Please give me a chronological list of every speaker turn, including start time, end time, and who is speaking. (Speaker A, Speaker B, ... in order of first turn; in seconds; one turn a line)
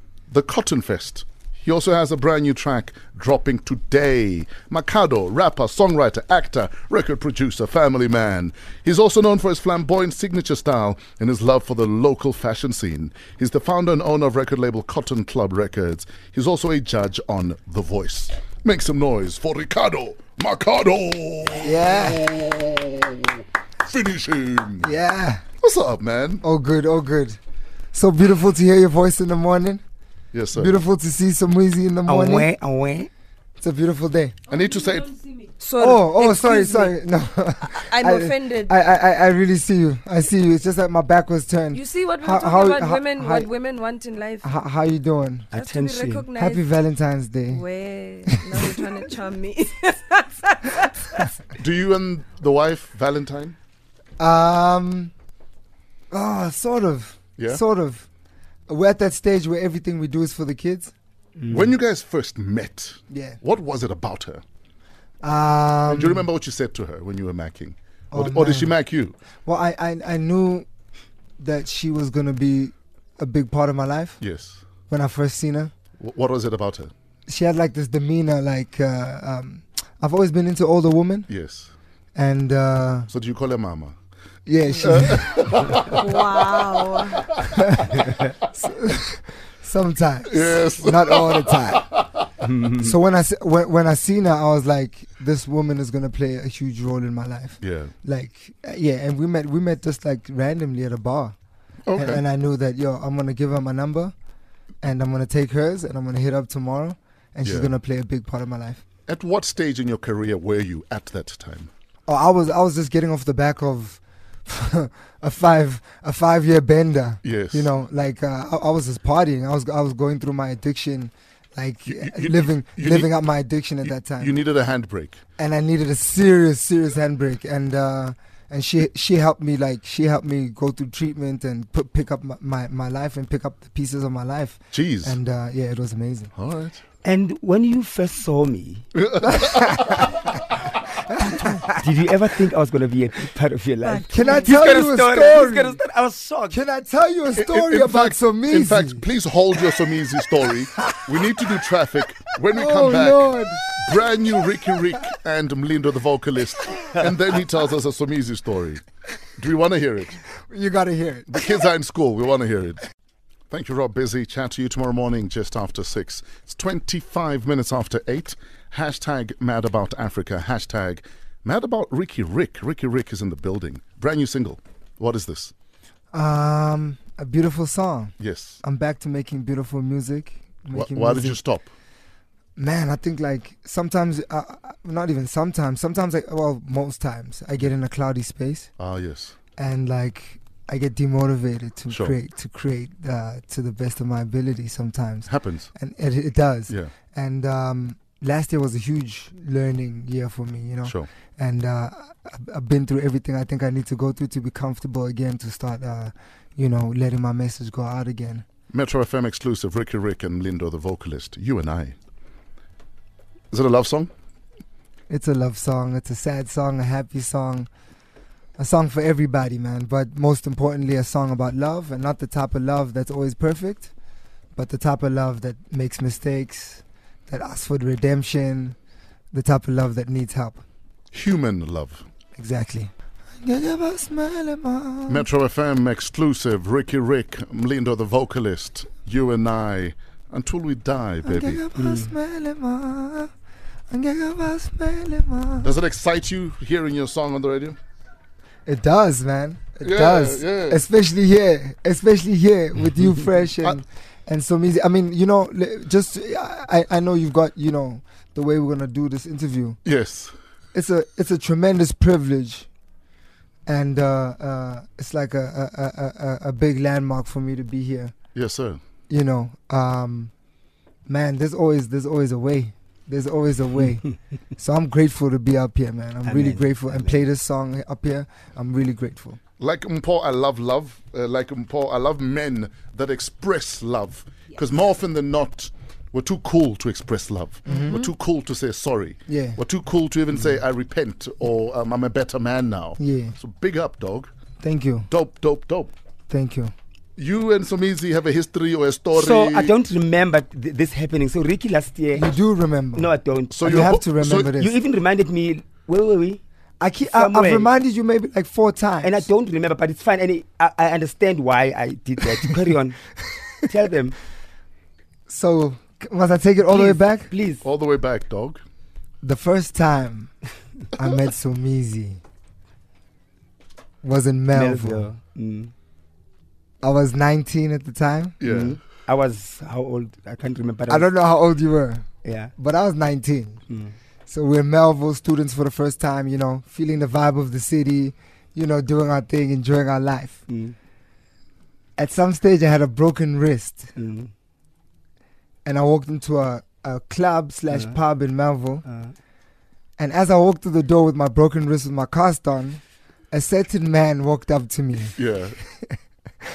Speaker A: 0.3-24.9
Speaker B: 21.6-22.2
Speaker B: 24.8-25.4
Speaker A: 25.6-26.4
Speaker B: 26.4-27.4
Speaker B: 27.9-29.8
Speaker A: 30.3-30.8
Speaker B: 30.5-32.5
Speaker C: 32.0-33.1
Speaker B: 33.6-34.3
Speaker A: 34.5-35.3
Speaker D: 35.6-36.9
Speaker B: 35.8-43.5
Speaker D: 37.6-38.7
Speaker D: 41.7-44.5
Speaker B: 44.4-45.5
Speaker C: 45.5-46.3
Speaker D: 45.5-46.6
Speaker B: 46.4-47.6
Speaker D: 47.5-51.3
Speaker B: 48.2-48.9
Speaker A: 51.5-53.5
Speaker B: 54.2-55.1
Speaker B: 56.1-58.1
Speaker B: 58.7-60.9
Speaker C: 61.4-61.7
Speaker A: 61.5-64.4
Speaker B: 63.1-63.4
Speaker B: 65.2-66.2
Speaker A: 65.9-69.2
Speaker B: 68.1-68.8
Speaker B: 69.4-70.7
Speaker B: 71.4-74.2
Speaker A: 74.2-74.6
Speaker B: 74.9-75.7
Speaker A: 76.0-76.9
Speaker B: 77.3-81.3
Speaker A: 81.3-81.7
Speaker B: 82.1-83.1
Speaker A: 83.1-84.0
Speaker B: 84.5-85.7
Speaker A: 84.8-87.5
Speaker D: 85.8-87.2
Speaker B: 87.5-91.9
Speaker A: 90.3-92.1
Speaker C: 92.4-92.9
Speaker B: 92.8-101.3
Speaker A: 97.6-97.9
Speaker A: 101.8-102.2
Speaker B: 101.9-104.1
Speaker B: 104.8-108.8
Speaker A: 107.4-107.7
Speaker A: 109.1-111.7
Speaker B: 112.1-124.4
Speaker A: 117.2-117.7
Speaker A: 121.9-123.1
Speaker A: 123.8-125.2
Speaker B: 125.4-136.3
Speaker A: 134.7-135.2
Speaker A: 136.3-136.8
Speaker C: 137.0-138.8
Speaker A: 138.9-140.3
Speaker B: 139.2-140.2
Speaker B: 141.1-141.8
Speaker C: 141.7-146.6
Speaker D: 143.8-144.8
Speaker B: 144.1-145.8
Speaker B: 146.5-149.0
Speaker A: 147.3-158.8
Speaker B: 152.5-153.6
Speaker A: 159.4-160.2
Speaker B: 160.5-161.4
Speaker A: 161.3-162.8
Speaker A: 163.5-175.5
Speaker B: 176.1-181.4
Speaker A: 178.2-178.6
Speaker A: 180.7-181.7
Speaker B: 182.6-188.7
Speaker A: 188.8-189.4
Speaker B: 189.6-208.4
Speaker A: 191.9-192.2
Speaker A: 195.2-195.7
Speaker A: 208.7-212.0
Speaker A: 213.5-214.1
Speaker B: 215.1-217.7
Speaker B: 218.6-223.9
Speaker B: 224.6-228.8
Speaker B: 229.3-230.6
Speaker A: 231.1-232.1
Speaker B: 232.4-235.3
Speaker A: 235.1-241.6
Speaker B: 241.2-243.3
Speaker C: 241.8-242.1
Speaker B: 243.9-245.8
Speaker A: 245.6-247.8
Speaker B: 248.7-259.8
Speaker A: 249.8-250.8
Speaker A: 259.8-260.3
Speaker B: 260.7-262.7
Speaker B: 263.6-268.1
Speaker A: 268.3-268.8
Speaker B: 269.1-270.3
Speaker B: 271.1-279.4
Speaker C: 276.2-277.2
Speaker A: 279.6-294.3
Speaker B: 287.6-288.1
Speaker B: 289.3-289.6
Speaker B: 293.0-293.4
Speaker B: 294.6-295.1
Speaker A: 295.1-295.9
Speaker B: 296.3-296.7
Speaker A: 297.2-299.7
Speaker C: 299.1-302.3
Speaker B: 302.1-304.8
Speaker C: 302.9-306.4
Speaker A: 303.5-304.5
Speaker B: 306.8-309.3
Speaker C: 307.0-307.7
Speaker C: 309.0-313.1
Speaker C: 313.6-314.2
Speaker B: 315.3-317.3
Speaker C: 316.7-317.6
Speaker A: 317.6-318.6
Speaker B: 319.2-320.3
Speaker B: 320.9-322.2
Speaker B: 324.0-325.1
Speaker C: 324.5-325.7
Speaker B: 326.8-328.4
Speaker A: 328.4-328.8
Speaker C: 328.4-331.1
Speaker B: 330.9-333.6
Speaker C: 332.2-332.5
Speaker C: 333.7-333.9
Speaker B: 334.3-340.4
Speaker C: 340.5-340.8
Speaker B: 342.0-343.9
Speaker C: 343.9-344.3
Speaker B: 345.6-348.8
Speaker C: 347.7-348.0
Speaker C: 348.9-349.1
Speaker B: 350.0-352.8
Speaker B: 353.3-355.2
Speaker A: 355.1-355.6